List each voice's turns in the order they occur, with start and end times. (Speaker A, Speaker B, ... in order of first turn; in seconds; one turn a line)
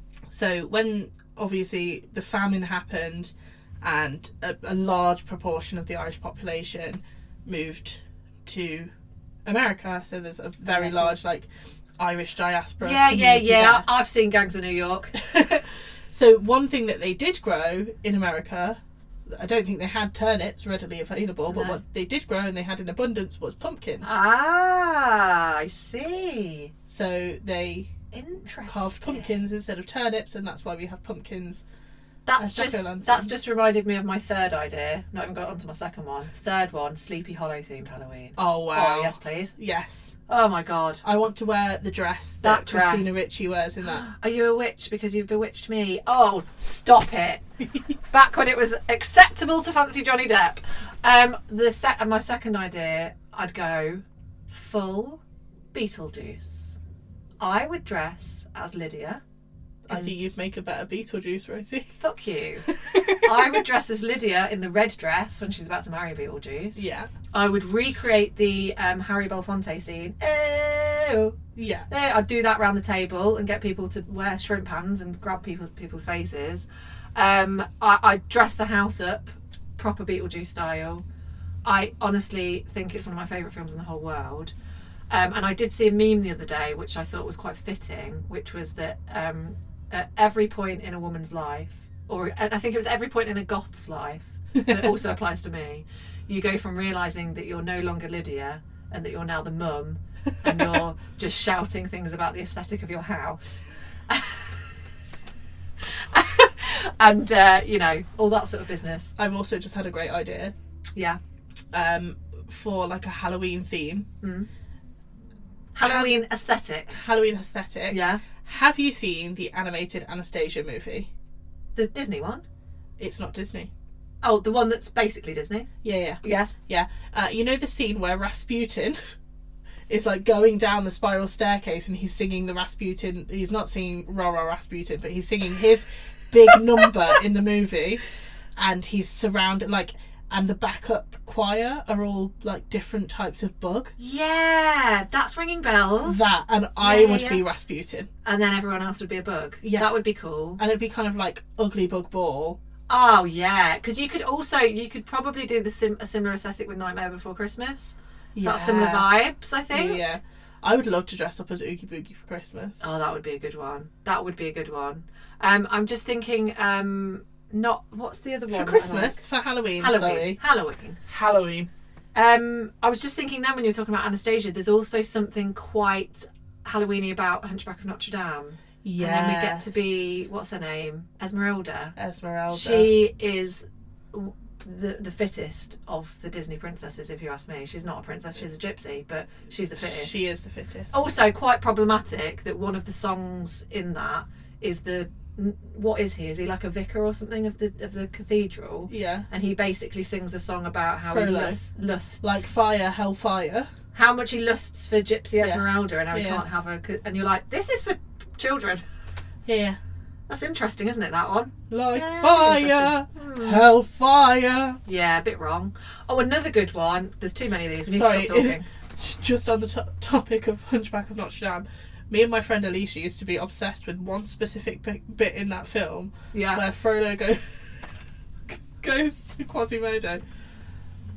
Speaker A: 0.3-8.9
Speaker A: 9.4-13.8
Speaker B: 10.6-11.3
Speaker B: 12.8-15.1
Speaker A: 15.1-24.1
Speaker B: 21.5-21.8
Speaker B: 24.0-26.7
Speaker A: 26.9-27.9
Speaker B: 28.1-29.3
Speaker A: 28.6-31.6
Speaker B: 32.2-39.5
Speaker A: 32.4-33.4
Speaker A: 38.4-40.1
Speaker B: 40.3-41.0
Speaker A: 41.0-44.1
Speaker B: 42.4-43.2
Speaker B: 43.9-47.4
Speaker B: 48.1-55.2
Speaker B: 55.7-56.8
Speaker B: 57.4-59.2
Speaker A: 59.9-61.9
Speaker B: 62.0-71.4
Speaker A: 62.7-63.4
Speaker A: 66.8-67.1
Speaker A: 71.5-71.9
Speaker B: 71.9-81.0
Speaker B: 81.6-84.5
Speaker B: 85.1-104.6
Speaker B: 105.9-109.1
Speaker A: 109.2-110.5
Speaker A: 111.7-114.1
Speaker B: 114.2-114.5
Speaker B: 115.7-116.9
Speaker A: 115.8-116.2
Speaker A: 116.9-121.1
Speaker B: 117.9-118.2
Speaker B: 121.7-122.4
Speaker A: 123.0-123.7
Speaker B: 124.2-125.7
Speaker A: 125.8-129.0
Speaker B: 126.2-126.5
Speaker A: 129.9-138.0
Speaker A: 138.6-143.9
Speaker B: 144.0-146.3
Speaker A: 146.0-148.1
Speaker B: 146.8-147.4
Speaker B: 148.2-150.6
Speaker A: 149.6-149.9
Speaker A: 150.6-152.6
Speaker B: 152.9-160.0
Speaker A: 158.3-159.1
Speaker A: 159.7-162.8
Speaker B: 162.8-169.2
Speaker A: 168.5-170.4
Speaker B: 169.8-171.0
Speaker A: 171.1-171.7
Speaker B: 172.1-181.9
Speaker A: 178.8-179.9
Speaker A: 181.9-182.9
Speaker B: 182.5-190.2
Speaker A: 189.8-190.9
Speaker B: 190.9-202.5
Speaker A: 198.9-199.2
Speaker A: 201.1-201.6
Speaker A: 202.2-203.7
Speaker B: 203.9-208.8
Speaker A: 205.4-206.4
Speaker A: 209.4-209.8
Speaker B: 210.3-213.6
Speaker A: 211.7-214.8
Speaker B: 214.8-218.6
Speaker A: 217.9-227.8
Speaker B: 226.3-226.6
Speaker A: 228.5-230.2